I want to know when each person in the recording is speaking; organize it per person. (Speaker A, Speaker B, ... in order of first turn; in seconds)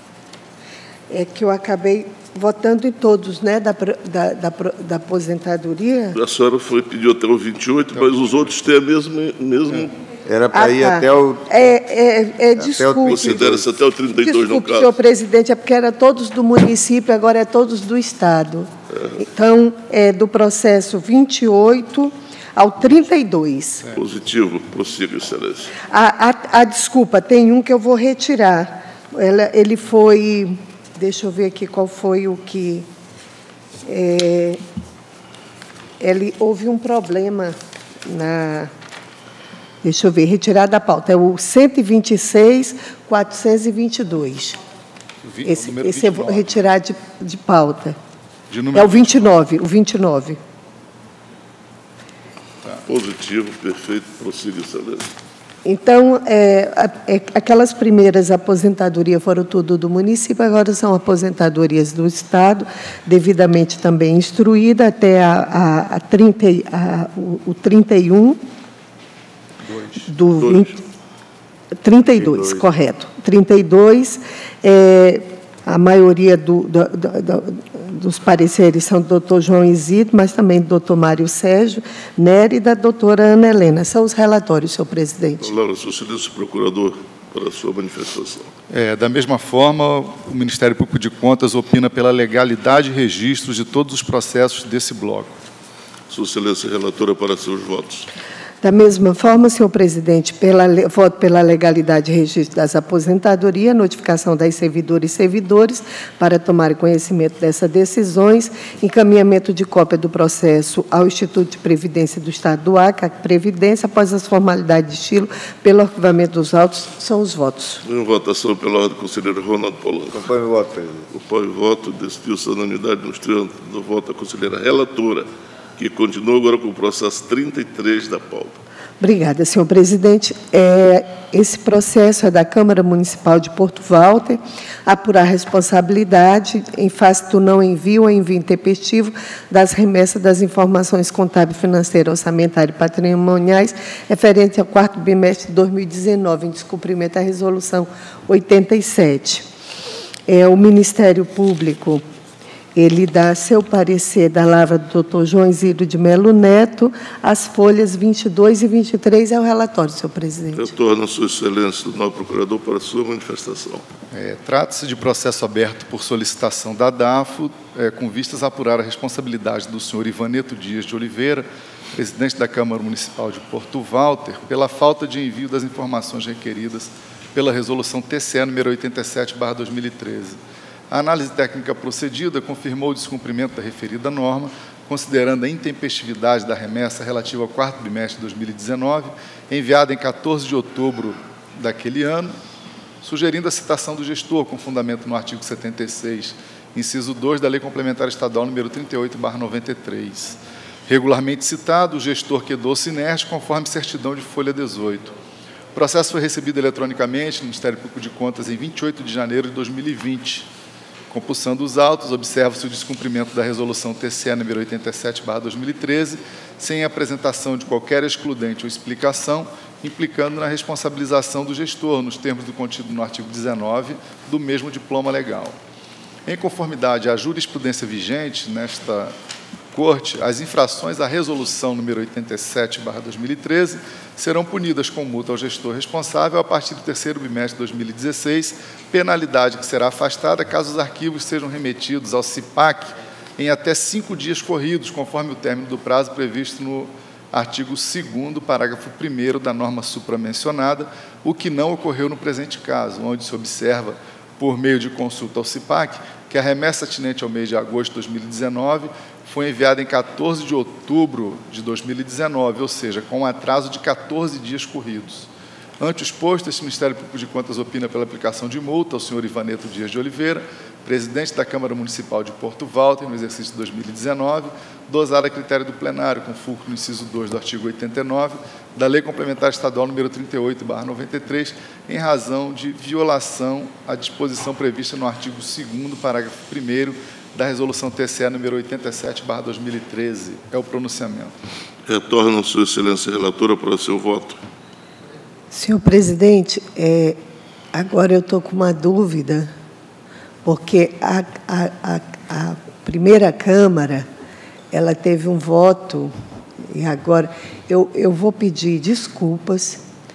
Speaker A: 1.1-6.2, 10.5-13.5, 14.2-23.9, 25.8-32.9, 33.8-34.6, 36.0-38.7, 39.8-44.6, 45.5-48.0, 48.7-50.4, 55.6-68.4, 70.1-70.8, 71.8-85.5, 98.6-117.8, 129.0-149.5, 150.3-152.0, 152.7-160.7, 295.5-297.2, 297.7-299.5, 300.4-304.1, 304.7-309.8
Speaker B: 6.1-9.9, 13.1-14.9, 23.9-25.7, 52.9-55.1, 70.5-70.7, 85.4-88.5, 96.1-98.1, 117.8-120.3, 121.1-128.6, 160.5-163.8, 291.9-294.4
Speaker C: 10.2-11.8, 12.6-13.6, 72.2-72.6, 120.1-121.1
Speaker D: 45.2-46.6, 48.5-49.2, 69.6-70.1, 88.7-95.4, 164.1-180.4, 180.9-192.3, 193.0-205.1, 205.7-210.5, 211.1-225.6, 226.2-229.1, 229.7-291.3